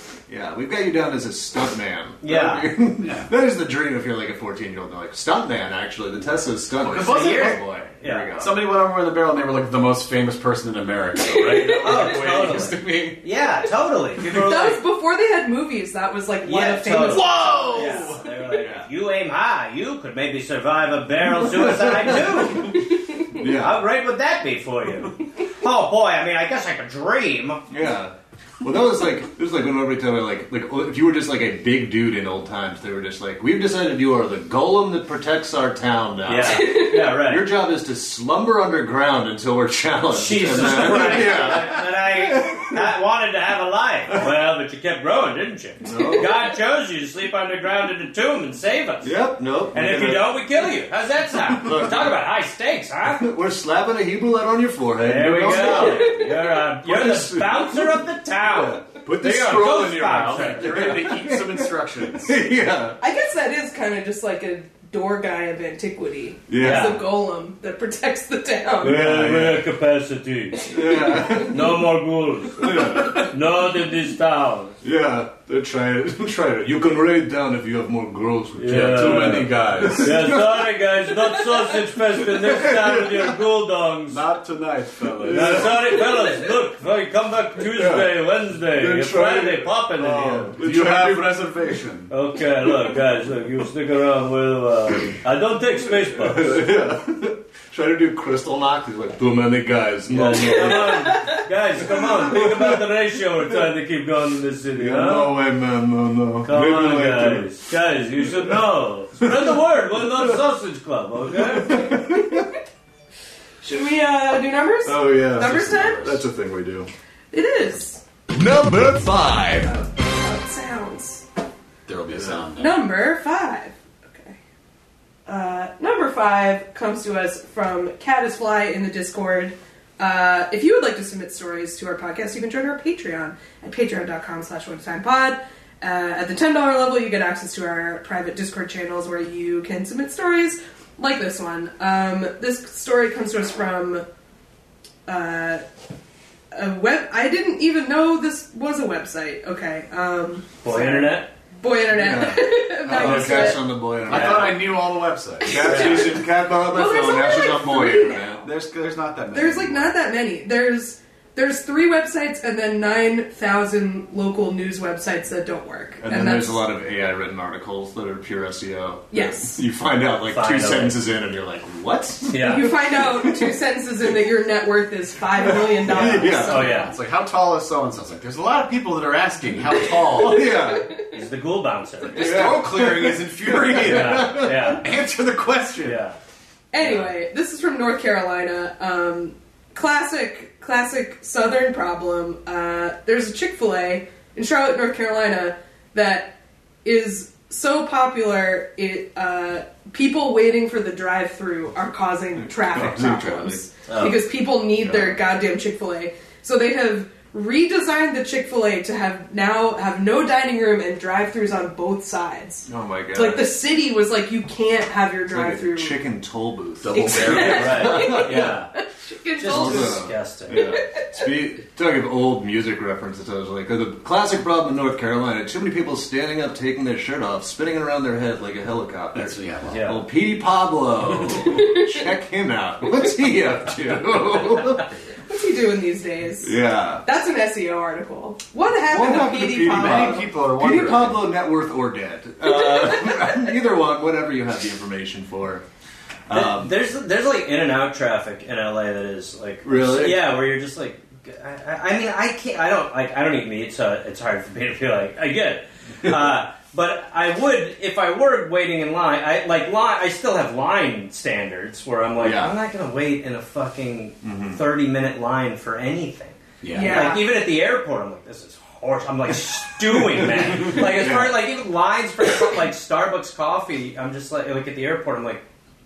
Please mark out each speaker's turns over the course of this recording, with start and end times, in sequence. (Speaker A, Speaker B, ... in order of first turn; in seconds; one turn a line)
Speaker A: 0.3-8.5
Speaker B: 2.2-2.7
Speaker C: 3.0-3.3
Speaker C: 6.8-7.6
Speaker B: 7.0-8.3
Speaker C: 8.4-13.2
Speaker D: 11.2-12.1
Speaker B: 11.8-14.8
Speaker D: 14.3-18.1
Speaker B: 16.4-22.8
Speaker C: 17.0-18.2
Speaker A: 18.6-18.9
Speaker A: 21.4-22.8
Speaker D: 22.9-23.2
Speaker A: 23.3-23.8
Speaker B: 23.4-27.6
Speaker A: 27.7-42.8
Speaker B: 36.2-37.4
Speaker D: 36.4-37.0
Speaker B: 40.1-49.1
Speaker A: 45.8-46.3
Speaker A: 49.0-50.3
Speaker B: 49.7-53.3
Speaker A: 51.5-52.1
Speaker A: 53.1-56.2
Speaker B: 55.0-60.9
Speaker D: 55.5-56.4
Speaker A: 56.8-63.0
Speaker C: 60.3-62.4
Speaker D: 63.0-69.0
Speaker A: 66.5-67.0
Speaker B: 66.6-67.0
Speaker B: 68.8-70.7
Speaker A: 68.8-69.6
Speaker D: 70.6-71.5
Speaker A: 70.7-71.8
Speaker B: 71.3-74.8
Speaker A: 72.6-73.3
Speaker A: 74.8-80.6
Speaker B: 78.5-84.2
Speaker C: 78.7-80.3
Speaker A: 82.3-83.4
Speaker C: 84.1-85.8
Speaker A: 85.0-86.2
Speaker B: 85.3-90.5
Speaker A: 87.7-88.1
Speaker A: 88.7-91.4
Speaker C: 90.5-92.1
Speaker B: 92.1-96.6
Speaker A: 96.1-101.2
Speaker B: 100.1-105.3
Speaker A: 101.8-102.8
Speaker A: 104.8-107.5
Speaker B: 106.4-111.9
Speaker A: 108.2-108.6
Speaker A: 109.2-110.4
Speaker A: 111.3-112.5
Speaker D: 113.6-116.2
Speaker A: 114.8-116.9
Speaker D: 117.3-118.0
Speaker A: 118.3-119.8
Speaker D: 119.7-121.2
Speaker C: 121.8-122.9
Speaker A: 122.1-122.4
Speaker D: 122.6-124.4
Speaker D: 125.2-144.0
Speaker D: 145.1-145.6
Speaker D: 146.5-153.6
Speaker B: 150.6-151.3
Speaker A: 151.9-154.7
Speaker C: 152.8-153.4
Speaker B: 152.9-153.6
Speaker C: 154.0-156.1
Speaker D: 155.4-158.3
Speaker A: 155.4-158.5
Speaker B: 155.6-156.1
Speaker C: 158.4-159.9
Speaker D: 159.3-166.6
Speaker A: 166.0-173.5
Speaker D: 169.1-169.6
Speaker B: 170.3-171.0
Speaker B: 172.3-172.7
Speaker D: 172.3-176.9
Speaker A: 175.4-176.7
Speaker C: 175.9-180.6
Speaker B: 176.4-176.9
Speaker D: 179.9-181.2
Speaker A: 180.2-180.9
Speaker B: 181.1-182.5
Speaker C: 182.1-186.0
Speaker A: 182.1-184.8
Speaker B: 183.8-184.8
Speaker B: 185.8-186.2
Speaker D: 186.7-216.0
Speaker A: 202.3-203.6
Speaker B: 203.9-204.2
Speaker A: 204.8-205.2
Speaker A: 212.7-213.5
Speaker A: 215.3-218.5
Speaker C: 216.8-218.1
Speaker D: 216.9-221.3
Speaker B: 217.3-218.7
Speaker B: 219.4-220.7
Speaker A: 219.4-234.9
Speaker C: 229.1-229.8
Speaker B: 229.7-230.0
Speaker D: 231.4-232.0
Speaker D: 235.2-240.3
Speaker A: 236.4-237.1
Speaker A: 238.9-245.6
Speaker C: 239.5-241.3
Speaker D: 242.5-243.2
Speaker A: 246.3-246.7
Speaker B: 246.3-275.4
Speaker A: 249.6-250.2
Speaker A: 262.2-262.6
Speaker A: 264.2-264.6
Speaker C: 266.6-267.2
Speaker D: 266.7-267.3
Speaker A: 269.9-271.4